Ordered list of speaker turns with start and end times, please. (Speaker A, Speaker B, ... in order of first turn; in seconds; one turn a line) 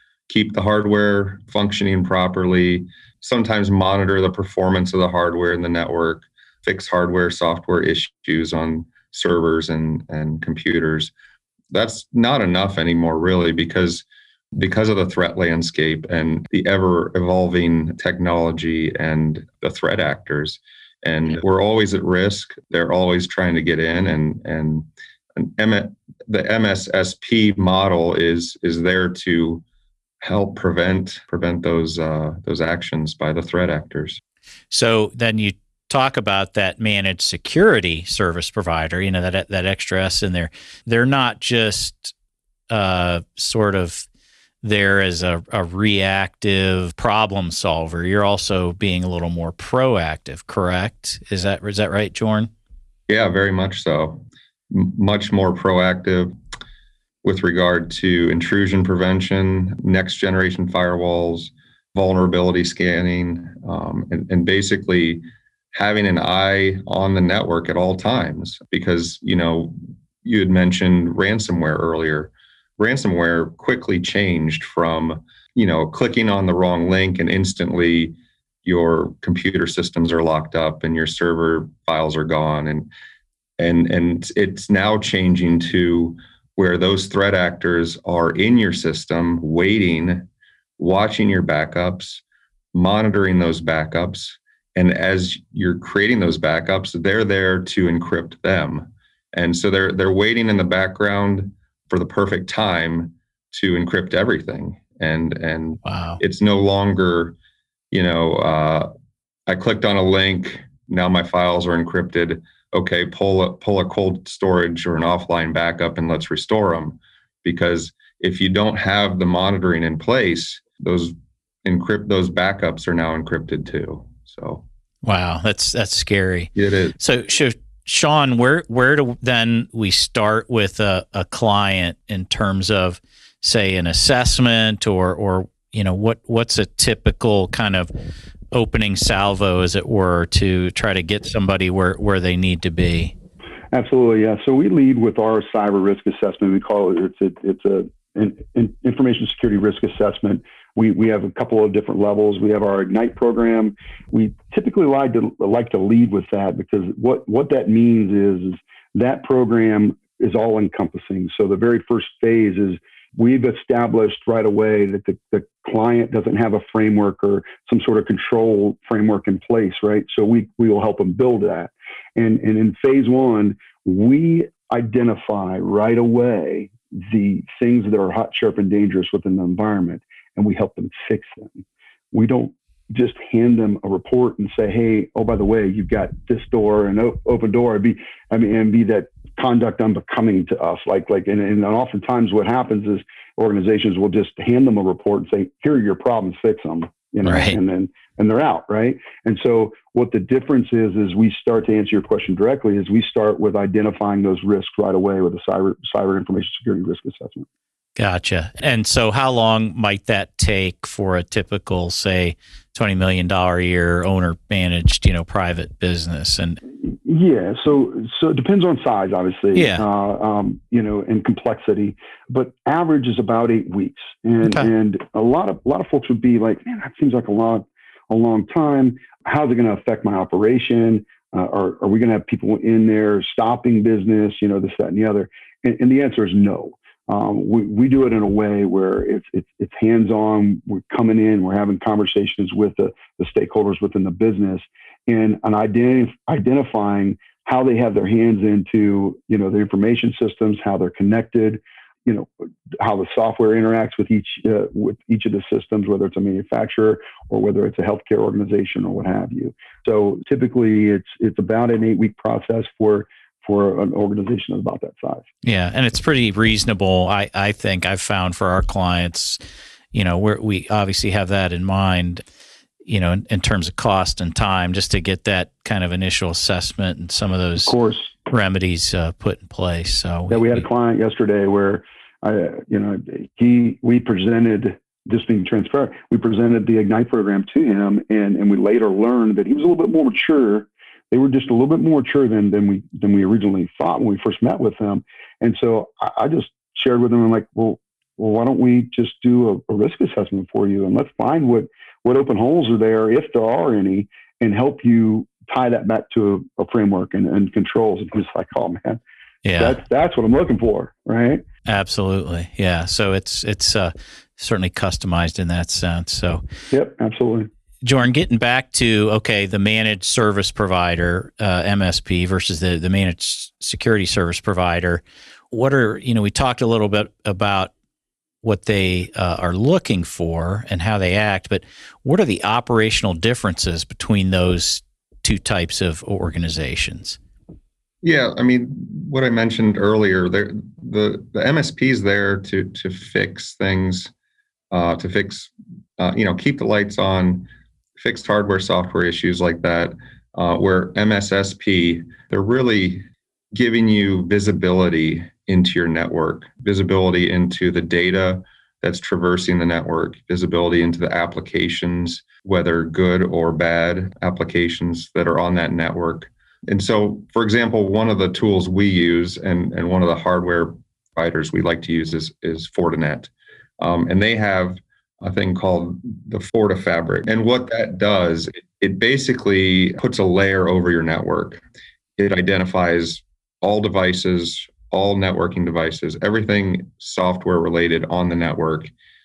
Speaker A: 0.3-11.1
Speaker A: 11.7-29.6
Speaker A: 30.2-34.2
Speaker B: 34.7-42.1
Speaker B: 42.7-44.1
Speaker B: 44.6-52.5
Speaker A: 53.1-56.4
Speaker A: 57.2-82.9
Speaker A: 83.6-92.2
Speaker A: 92.7-107.4
Speaker B: 105.8-106.2
Speaker A: 107.9-108.9
Speaker A: 109.5-124.7
Speaker B: 125.0-137.9
Speaker A: 126.6-127.0
Speaker B: 138.5-143.1
Speaker C: 143.7-207.5
Speaker B: 197.2-197.6
Speaker B: 208.0-216.6
Speaker C: 216.8-265.3
Speaker B: 219.6-219.8
Speaker B: 224.4-224.7
Speaker B: 265.4-269.4
Speaker B: 269.9-272.2
Speaker B: 272.9-277.8
Speaker C: 277.6-278.1
Speaker B: 278.3-280.6
Speaker C: 280.3-309.0
Speaker B: 309.4-309.8
Speaker C: 309.6-311.4
Speaker B: 311.7-316.4
Speaker C: 316.7-317.5
Speaker B: 317.8-327.7
Speaker B: 328.4-337.2
Speaker A: 338.0-344.1
Speaker A: 344.7-381.6
Speaker A: 382.2-388.9